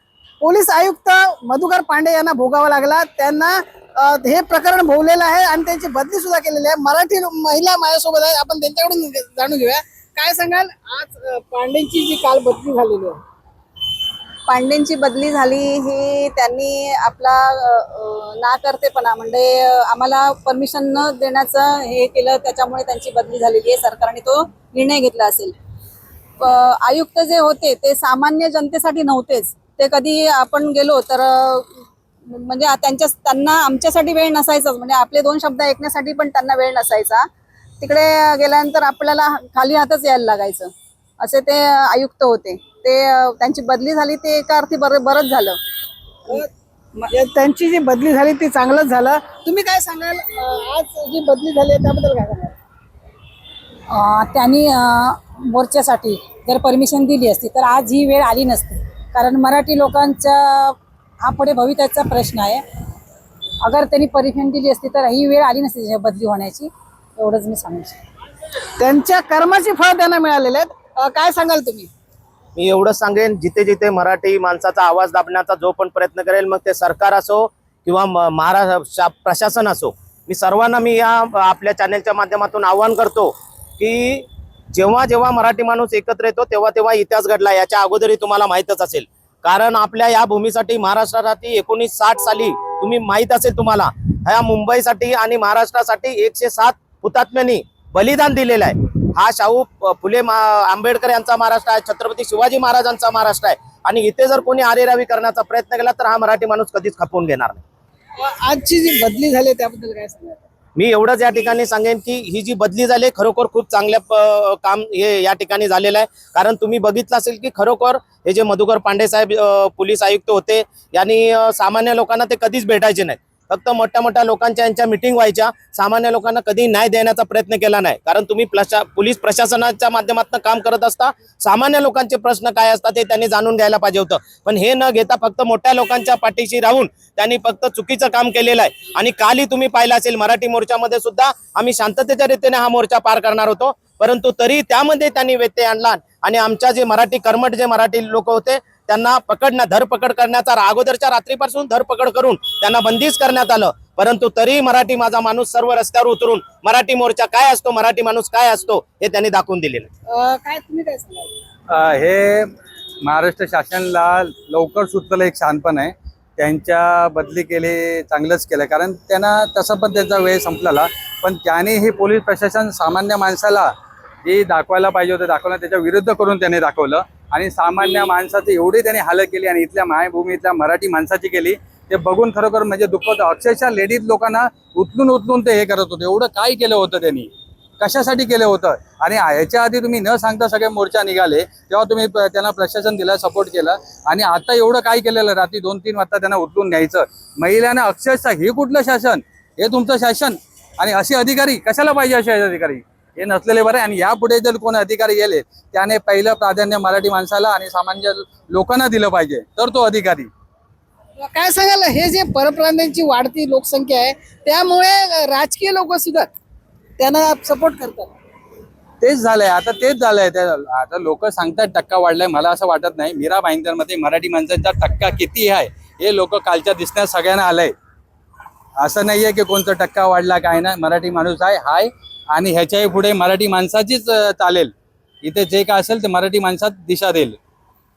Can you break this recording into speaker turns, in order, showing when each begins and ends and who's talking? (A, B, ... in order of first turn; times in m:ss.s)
0:00.4-0:13.2 A
0:14.5-0:25.5 B
0:26.4-0:31.7 B
0:32.3-0:37.3 B
0:37.8-0:45.6 B
0:47.1-0:52.6 A
0:53.9-1:02.6 C
1:03.6-1:08.0 C
1:08.8-1:11.9 A
1:12.6-1:47.6 D
1:48.2-1:50.4 A
1:50.8-2:39.9 D
2:40.1-2:41.3 A
2:41.7-2:53.7 E
2:54.2-3:30.3 E
3:31.2-3:36.3 A
3:37.0-3:38.1 A
3:39.0-3:47.7 E
3:48.8-3:54.7 E
3:55.2-3:57.4 E